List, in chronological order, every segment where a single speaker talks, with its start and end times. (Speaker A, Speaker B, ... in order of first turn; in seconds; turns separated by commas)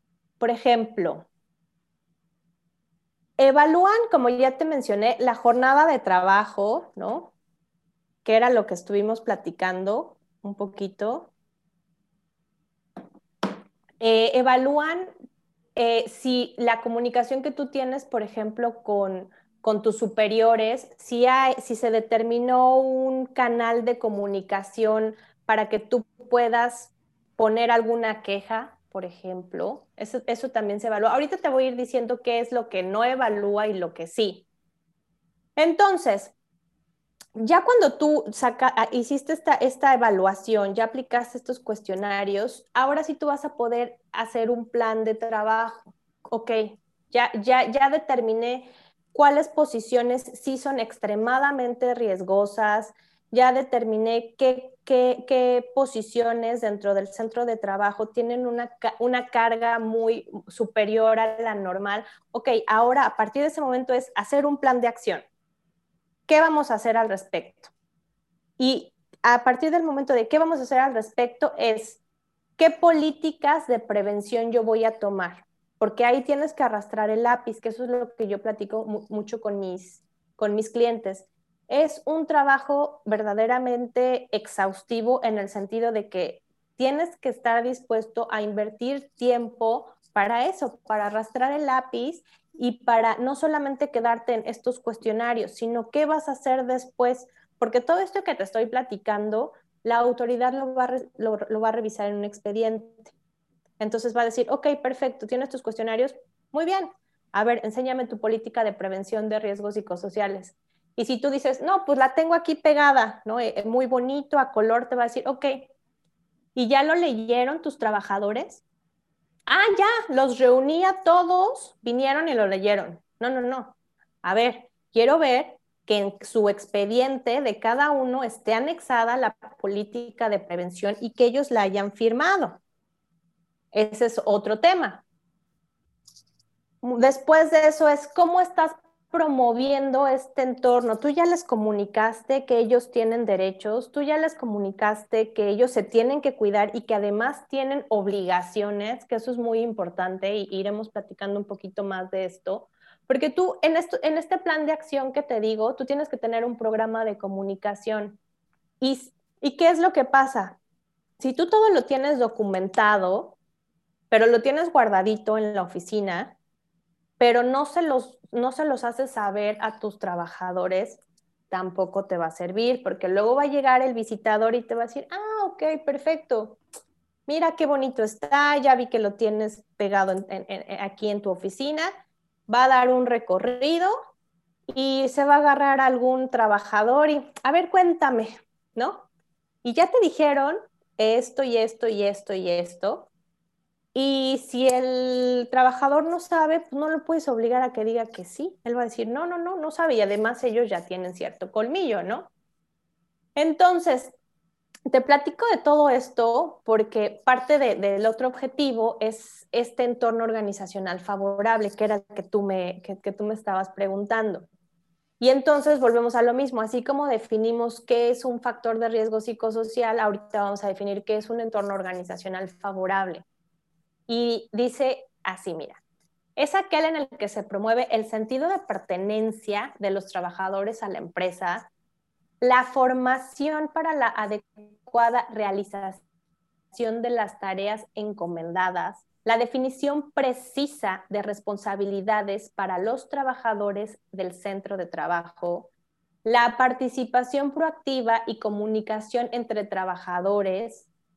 Speaker A: 0.4-1.3, Speaker A: 3.4-7.3, Speaker A: 8.2-11.3, Speaker A: 14.0-15.1, Speaker A: 15.8-34.5, Speaker A: 35.6-36.3, Speaker A: 37.4-65.2, Speaker A: 66.3-67.7, Speaker A: 68.6-72.0, Speaker A: 72.6-103.1, Speaker A: 103.8-115.7, Speaker A: 116.5-118.6, Speaker A: 119.5-132.6, Speaker A: 133.7-135.0, Speaker A: 136.8-158.2, Speaker A: 158.8-160.6, Speaker A: 161.2-163.4, Speaker A: 164.1-166.4, Speaker A: 167.2-176.6, Speaker A: 177.3-181.9, Speaker A: 182.5-183.9, Speaker A: 184.7-189.1, Speaker A: 189.6-193.1, Speaker A: 193.9-202.3, Speaker A: 203.4-204.1, Speaker A: 204.9-214.5, Speaker A: 215.2-223.2, Speaker A: 224.1-225.8, Speaker A: 226.4-231.7, Speaker A: 232.4-236.0, Speaker A: 236.7-245.7, Speaker A: 246.2-250.9